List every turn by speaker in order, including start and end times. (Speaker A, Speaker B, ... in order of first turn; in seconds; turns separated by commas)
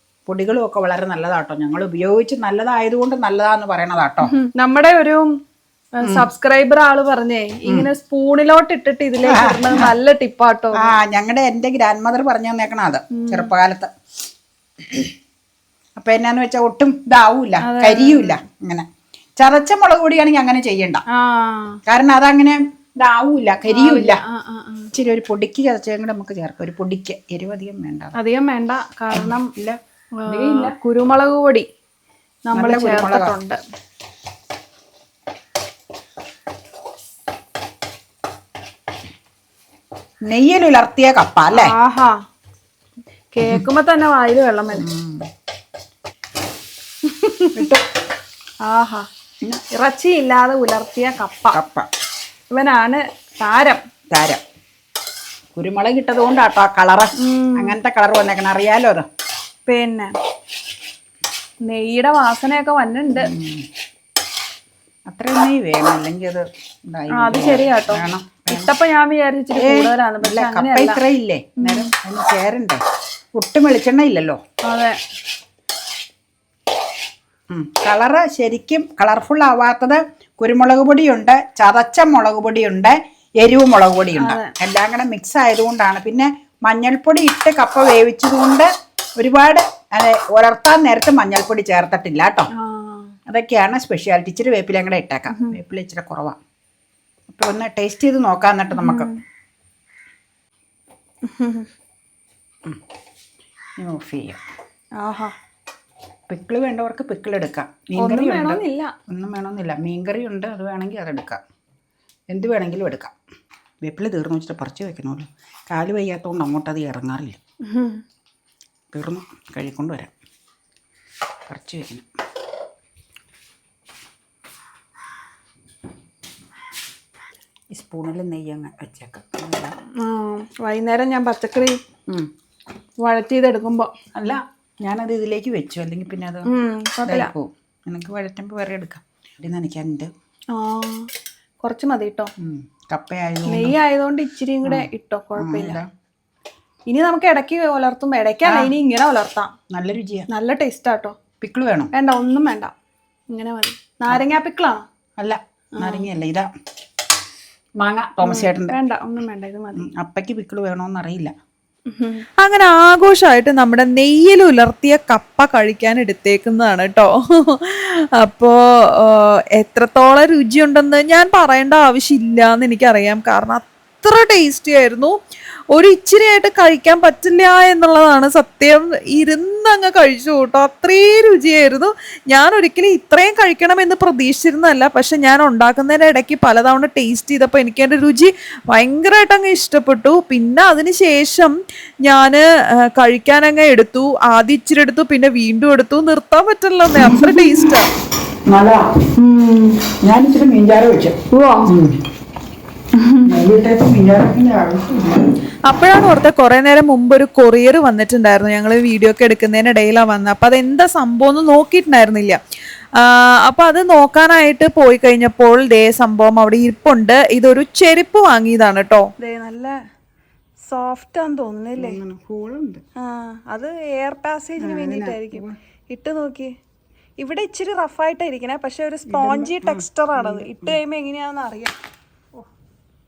Speaker A: 0.3-4.3, Speaker B: 4.3-5.3, Speaker B: 6.0-10.9, Speaker A: 9.2-9.9, Speaker A: 10.8-13.9, Speaker B: 13.2-13.5, Speaker A: 14.9-15.1, Speaker A: 16.0-18.9, Speaker B: 17.6-18.4, Speaker A: 19.4-21.0, Speaker B: 21.1-21.8, Speaker A: 21.9-24.2, Speaker B: 23.7-24.9, Speaker A: 24.9-28.1, Speaker B: 28.2-29.5, Speaker A: 29.1-30.7, Speaker B: 30.2-31.7, Speaker B: 32.5-33.6, Speaker A: 32.5-33.4, Speaker A: 40.3-41.7, Speaker B: 41.5-42.1, Speaker B: 43.3-44.9, Speaker A: 44.7-45.3, Speaker B: 47.2-47.6, Speaker A: 47.5-47.8, Speaker B: 48.7-49.1, Speaker B: 49.7-51.6, Speaker A: 51.5-51.9, Speaker B: 52.5-53.8, Speaker A: 54.1-54.4, Speaker A: 55.5-59.1, Speaker B: 57.2-57.8, Speaker B: 59.7-60.1, Speaker B: 61.6-63.3, Speaker A: 63.1-63.7, Speaker A: 65.1-68.7, Speaker B: 67.2-71.0, Speaker A: 69.5-72.8, Speaker B: 71.6-71.9, Speaker A: 73.3-74.4, Speaker B: 74.7-75.0, Speaker A: 77.5-92.5, Speaker B: 84.2-84.5, Speaker B: 92.5-93.1, Speaker A: 93.3-96.4, Speaker B: 95.3-95.6, Speaker A: 97.3-99.1, Speaker B: 98.8-99.2, Speaker B: 101.2-101.7, Speaker A: 103.8-104.4, Speaker B: 105.0-105.3, Speaker A: 106.3-111.4, Speaker B: 108.0-108.9, Speaker A: 112.3-113.1, Speaker A: 113.8-117.4, Speaker B: 117.7-118.0, Speaker A: 118.9-120.1, Speaker A: 121.5-122.1, Speaker A: 127.7-129.7, Speaker B: 130.0-131.8, Speaker B: 133.0-133.9, Speaker A: 134.2-136.5, Speaker B: 136.5-137.3, Speaker A: 137.1-140.1, Speaker B: 140.5-141.1, Speaker B: 141.6-142.3, Speaker A: 142.4-143.8, Speaker B: 143.5-145.8, Speaker A: 144.7-145.8, Speaker B: 146.9-149.5, Speaker A: 148.4-148.7, Speaker A: 149.7-150.3, Speaker B: 150.3-151.2, Speaker A: 151.4-151.9, Speaker B: 151.9-152.7, Speaker B: 153.3-154.7, Speaker C: 154.1-154.8, Speaker A: 155.2-156.5, Speaker A: 157.8-158.8, Speaker B: 158.2-159.9, Speaker A: 159.8-161.3, Speaker C: 162.0-175.2, Speaker C: 175.7-197.9, Speaker A: 197.0-197.5, Speaker A: 198.5-198.9, Speaker B: 199.3-199.7, Speaker A: 200.0-202.0, Speaker B: 201.3-201.7, Speaker A: 203.2-205.3, Speaker C: 205.7-212.4, Speaker C: 213.0-219.7, Speaker C: 220.7-221.8, Speaker A: 221.8-222.8, Speaker B: 223.2-226.5, Speaker A: 224.6-225.6, Speaker B: 227.2-231.7, Speaker C: 228.9-229.2, Speaker A: 229.1-230.8